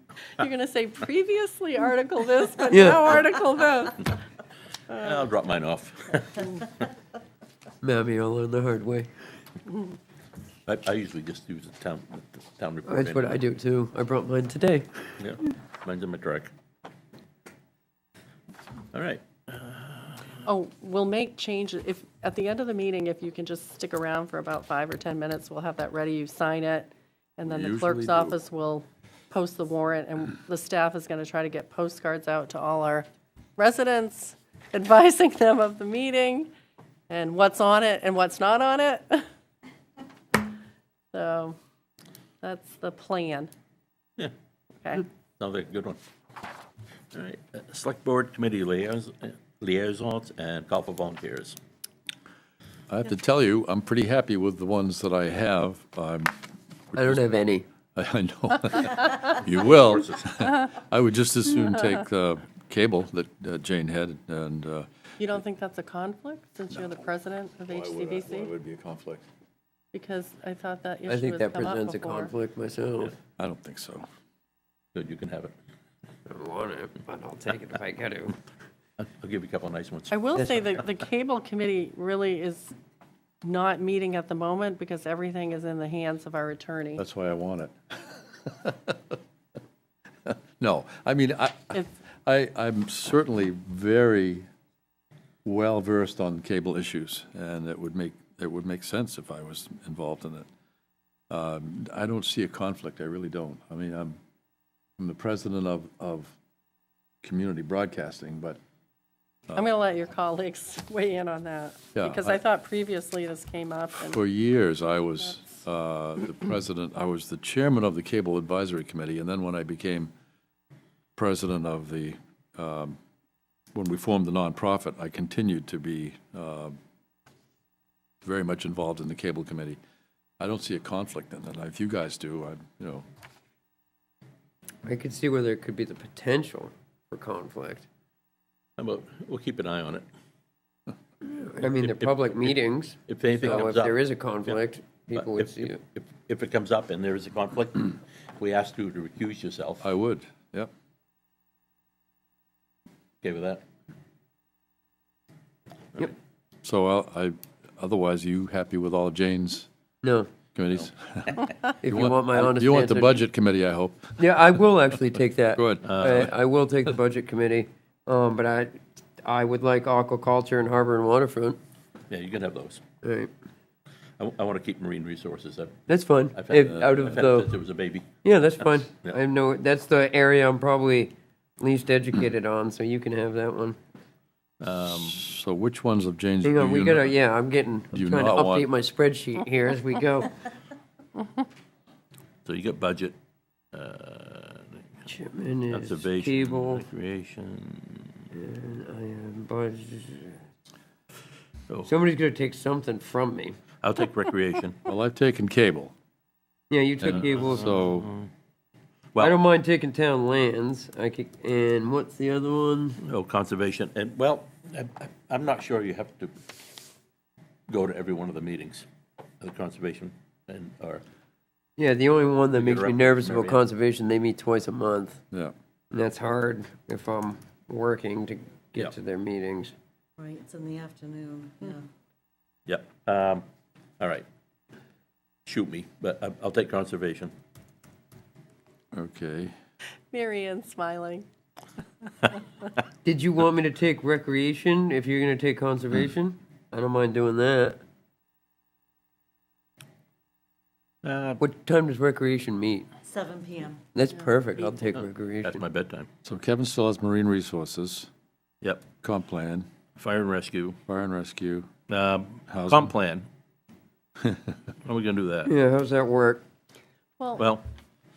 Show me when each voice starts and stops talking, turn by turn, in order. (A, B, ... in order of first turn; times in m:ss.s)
0:00.4-0:04.2 A
0:02.7-0:03.1 B
0:04.9-0:06.6 C
0:07.8-0:09.1 B
0:10.7-0:13.4 C
0:12.8-0:14.9 B
0:15.2-0:16.5 C
0:18.9-0:20.3 C
0:20.4-0:36.5 A
0:27.5-0:28.4 D
0:37.1-0:39.3 A
0:41.1-0:41.6 A
0:42.4-0:43.5 A
0:45.4-0:46.0 C
0:47.1-0:51.6 C
0:52.9-0:56.3 D
0:56.9-0:57.2 D
0:57.0-0:57.7 B
0:58.0-1:04.9 D
0:59.6-1:00.2 C
1:05.2-1:08.5 A
1:07.7-1:09.3 D
1:09.9-1:12.3 A
1:11.1-1:13.2 B
1:13.4-1:14.0 D
1:14.9-1:15.5 C
1:16.3-1:18.4 B
1:19.0-1:20.2 C
1:20.1-1:22.7 A
1:23.4-1:27.0 A
1:27.0-1:29.2 D
1:30.3-1:34.4 D
1:35.4-1:40.5 D
1:41.3-1:44.2 D
1:45.0-1:46.4 D
1:47.2-1:48.6 D
1:49.5-1:54.2 A
1:52.0-1:52.4 D
1:54.0-2:00.1 D
2:01.2-2:03.0 D
2:03.7-2:06.8 D
2:08.2-2:09.8 D
2:10.4-2:13.0 D
2:14.8-2:17.9 B
2:18.8-2:20.0 C
2:21.2-2:25.8 B
2:21.6-2:29.8 C
2:29.8-2:30.7 D
2:33.2-2:33.6 C
2:36.6-2:39.7 D
2:40.0-2:40.3 B
2:40.6-2:44.2 D
2:41.8-2:43.2 B
2:44.2-2:51.6 B
2:45.6-2:45.8 D
2:45.8-2:46.3 C
2:52.1-2:52.8 C
2:53.0-2:53.3 B
2:54.2-2:58.2 C
2:55.9-2:57.6 B
2:58.2-3:03.8 B
2:58.9-2:59.2 C
3:04.6-3:05.2 C
3:05.2-3:07.2 D
3:06.4-3:10.4 B
3:07.9-3:08.7 D
3:12.5-3:13.2 C
3:13.7-3:15.1 C
3:15.1-3:16.9 B
3:15.7-3:18.2 C
3:18.3-3:20.4 B
3:21.8-3:23.6 B
3:23.8-3:24.8 C
3:24.8-3:25.9 D
3:26.7-3:27.7 B
3:27.0-3:28.1 D
3:27.1-3:28.3 C
3:29.2-3:33.0 B
3:33.0-3:36.4 C
3:37.7-3:38.9 C
3:39.4-3:41.0 C
3:41.8-3:45.2 B
3:42.5-3:43.6 C
3:45.9-3:49.7 B
3:50.2-3:51.9 E
3:52.7-3:53.4 C
3:54.0-3:54.2 C
3:55.5-3:57.3 C
3:58.9-3:59.5 D
4:00.1-4:01.2 A
4:03.0-4:07.8 B
4:11.0-4:11.4 C
4:11.4-4:12.9 B
4:13.1-4:13.9 E
4:14.0-4:15.6 B
4:15.0-4:16.1 C
4:16.2-4:18.1 D
4:19.0-4:19.7 D
4:20.0-4:20.8 C
4:20.9-4:21.7 D
4:21.9-4:23.3 C
4:22.5-4:22.9 D
4:24.8-4:25.5 C
4:25.5-4:26.4 B
4:27.2-4:27.5 A
4:27.4-4:27.6 C